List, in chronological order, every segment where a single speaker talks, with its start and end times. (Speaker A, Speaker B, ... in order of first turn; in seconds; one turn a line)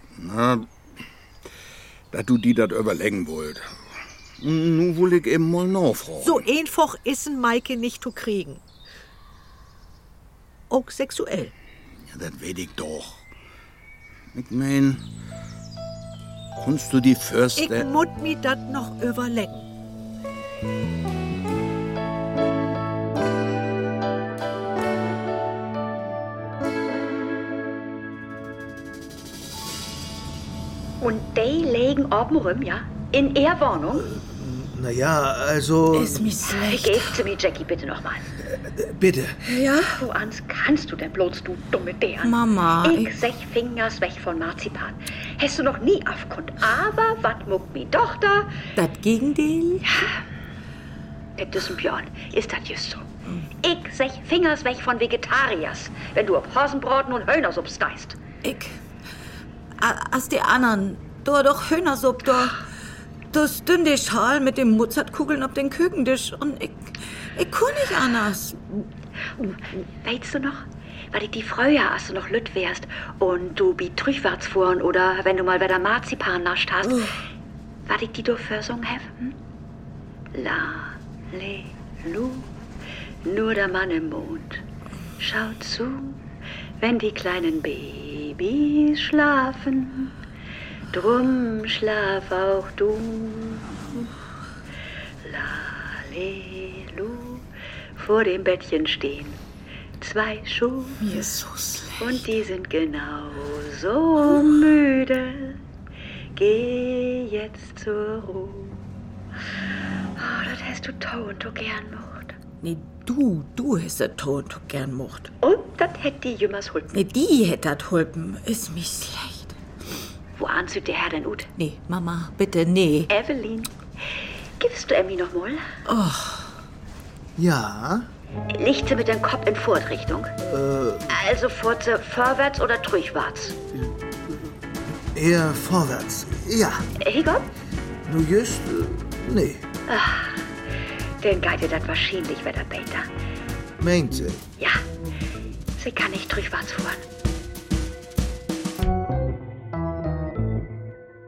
Speaker A: 0.1-0.7
Speaker A: 2.1-3.8
Speaker A: 4.4-6.4
Speaker B: 6.2-8.6
Speaker B: 10.7-11.5
Speaker A: 12.1-13.2
Speaker A: 14.3-15.0
Speaker A: 16.6-17.9
Speaker B: 17.6-19.7
Speaker C: 31.0-34.1
Speaker D: 34.0-36.3
Speaker E: 35.9-37.2
Speaker C: 36.4-38.3
Speaker D: 38.5-39.4
Speaker E: 39.4-40.0
Speaker C: 39.9-48.5
Speaker E: 42.2-43.2
Speaker E: 48.8-49.8
Speaker C: 49.8-50.2
Speaker C: 51.4-53.0
Speaker C: 53.6-58.2
Speaker E: 58.4-58.8
Speaker E: 59.8-62.6
Speaker E: 63.3-68.8
Speaker C: 70.0-77.1
Speaker C: 77.8-79.4
Speaker C: 80.3-82.5
Speaker C: 83.2-84.6
Speaker C: 85.2-86.2
Speaker C: 86.8-90.2
Speaker C: 90.9-93.7
Speaker C: 95.2-99.4
Speaker C: 100.0-101.0
Speaker E: 101.0-102.2
Speaker C: 102.0-105.6
Speaker C: 106.3-108.8
Speaker C: 110.2-112.4
Speaker E: 112.6-115.3
Speaker C: 115.4-116.9
Speaker E: 116.9-119.6
Speaker C: 120.3-121.5
Speaker E: 121.5-123.1
Speaker C: 123.1-123.7
Speaker C: 124.6-125.7
Speaker E: 125.8-126.5
Speaker D: 127.3-128.1
Speaker C: 128.5-130.3
Speaker D: 130.4-131.1
Speaker C: 131.1-133.6
Speaker D: 135.1-136.9
Speaker C: 137.0-137.5
Speaker D: 138.1-139.7
Speaker C: 139.9-140.4
Speaker C: 141.2-143.1
Speaker D: 143.8-144.4
Speaker C: 145.8-147.0